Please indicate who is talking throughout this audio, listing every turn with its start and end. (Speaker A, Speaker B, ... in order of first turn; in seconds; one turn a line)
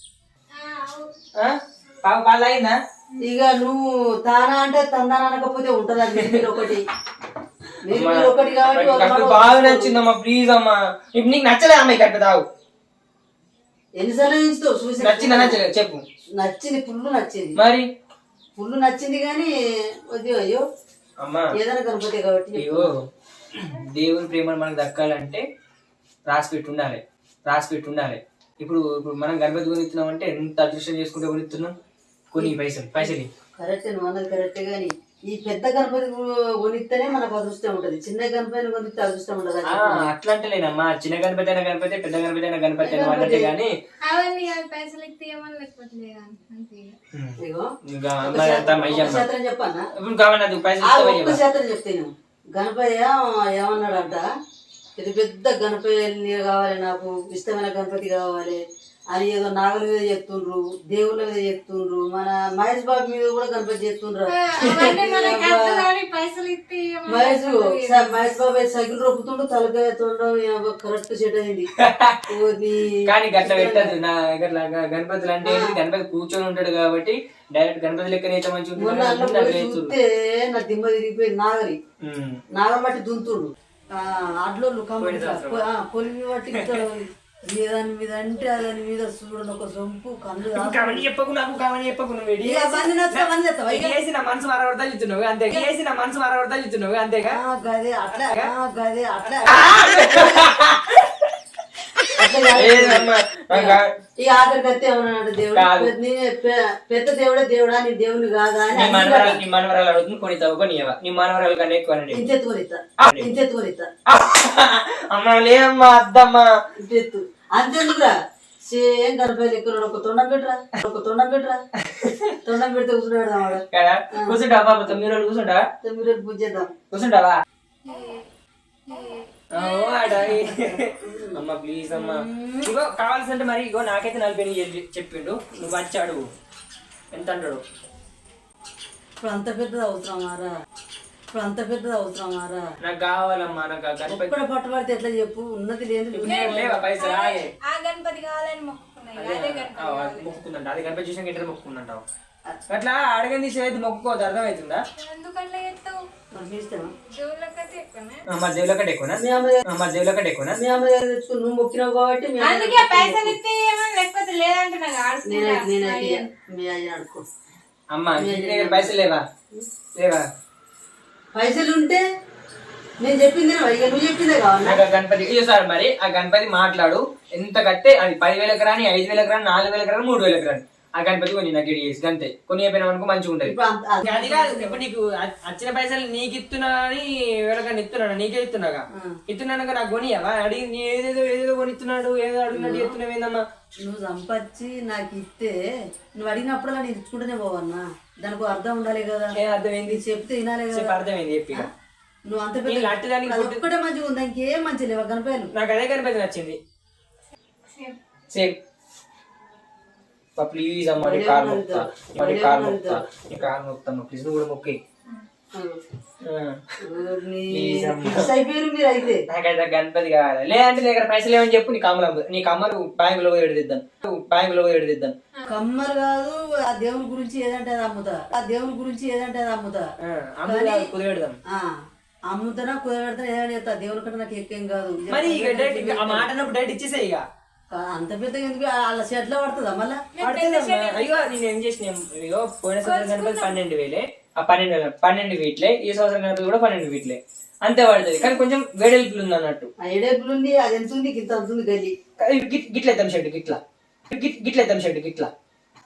Speaker A: 0.5-1.2
Speaker B: 1.4-2.8
Speaker C: 3.2-6.8
Speaker B: 6.1-6.5
Speaker C: 7.8-10.0
Speaker B: 7.9-12.4
Speaker C: 14.0-15.6
Speaker B: 15.0-16.0
Speaker C: 16.4-17.6
Speaker B: 17.6-17.9
Speaker C: 18.6-19.5
Speaker C: 20.1-20.6
Speaker B: 21.2-21.5
Speaker C: 21.6-22.9
Speaker B: 22.6-25.4
Speaker B: 26.3-31.7
Speaker B: 32.3-33.3
Speaker C: 32.4-40.1
Speaker B: 39.7-43.7
Speaker C: 42.8-43.5
Speaker A: 44.0-47.0
Speaker B: 47.1-49.3
Speaker C: 47.4-47.7
Speaker C: 48.2-49.9
Speaker B: 50.0-51.4
Speaker C: 50.8-54.2
Speaker C: 55.0-58.6
Speaker C: 59.1-65.8
Speaker A: 64.3-68.3
Speaker C: 67.1-71.7
Speaker B: 71.8-72.3
Speaker C: 72.3-74.0
Speaker B: 73.0-79.9
Speaker C: 75.4-75.8
Speaker C: 78.8-81.8
Speaker B: 82.0-82.4
Speaker C: 82.5-91.1
Speaker B: 85.0-85.7
Speaker B: 86.5-86.8
Speaker B: 90.5-97.4
Speaker C: 92.4-94.0
Speaker C: 97.3-100.4
Speaker B: 98.1-98.5
Speaker B: 99.5-101.3
Speaker C: 102.2-109.4
Speaker B: 102.5-103.9
Speaker B: 105.5-105.9
Speaker B: 108.7-112.2
Speaker C: 112.1-113.9
Speaker B: 113.0-113.3
Speaker B: 114.1-116.5
Speaker C: 116.8-118.2
Speaker C: 118.7-121.6
Speaker B: 121.8-122.4
Speaker C: 122.4-124.4
Speaker B: 123.7-125.7
Speaker C: 125.8-126.7
Speaker B: 126.9-127.4
Speaker A: 127.8-128.3
Speaker A: 128.9-130.6
Speaker B: 129.5-136.2
Speaker C: 131.0-131.4
Speaker C: 131.9-132.7
Speaker B: 137.1-137.6
Speaker C: 139.2-140.5
Speaker C: 141.3-142.6
Speaker B: 142.8-144.4
Speaker C: 144.1-146.8
Speaker B: 146.1-147.5
Speaker A: 146.2-150.4
Speaker B: 149.2-152.0
Speaker B: 152.7-154.8
Speaker A: 155.0-156.0
Speaker C: 156.3-156.9
Speaker A: 157.0-158.3
Speaker B: 158.3-160.6
Speaker C: 159.2-159.6
Speaker C: 160.6-163.4
Speaker A: 162.4-166.3
Speaker C: 165.2-167.3
Speaker B: 167.9-169.2
Speaker C: 168.2-168.9
Speaker B: 170.0-170.2
Speaker C: 171.3-172.0
Speaker C: 173.0-174.8
Speaker B: 174.6-193.4
Speaker C: 183.4-184.8
Speaker C: 192.5-193.0
Speaker C: 193.8-195.6
Speaker C: 196.2-200.9
Speaker B: 199.3-200.0
Speaker B: 200.7-201.7
Speaker C: 202.3-205.5
Speaker B: 202.7-203.6
Speaker B: 205.5-206.6
Speaker A: 207.7-208.0
Speaker B: 208.3-208.6
Speaker B: 210.4-214.8
Speaker C: 211.0-213.1
Speaker B: 216.2-216.6
Speaker C: 216.8-219.2
Speaker B: 217.5-218.3
Speaker B: 219.3-225.2
Speaker C: 225.5-229.8
Speaker B: 230.0-231.4
Speaker C: 230.5-230.9
Speaker C: 231.5-231.8
Speaker C: 232.3-236.3
Speaker B: 235.1-237.2
Speaker C: 237.7-240.0
Speaker A: 240.1-241.2
Speaker B: 240.2-249.7
Speaker A: 242.8-243.6
Speaker C: 249.8-251.9
Speaker B: 252.2-253.6
Speaker B: 254.1-255.3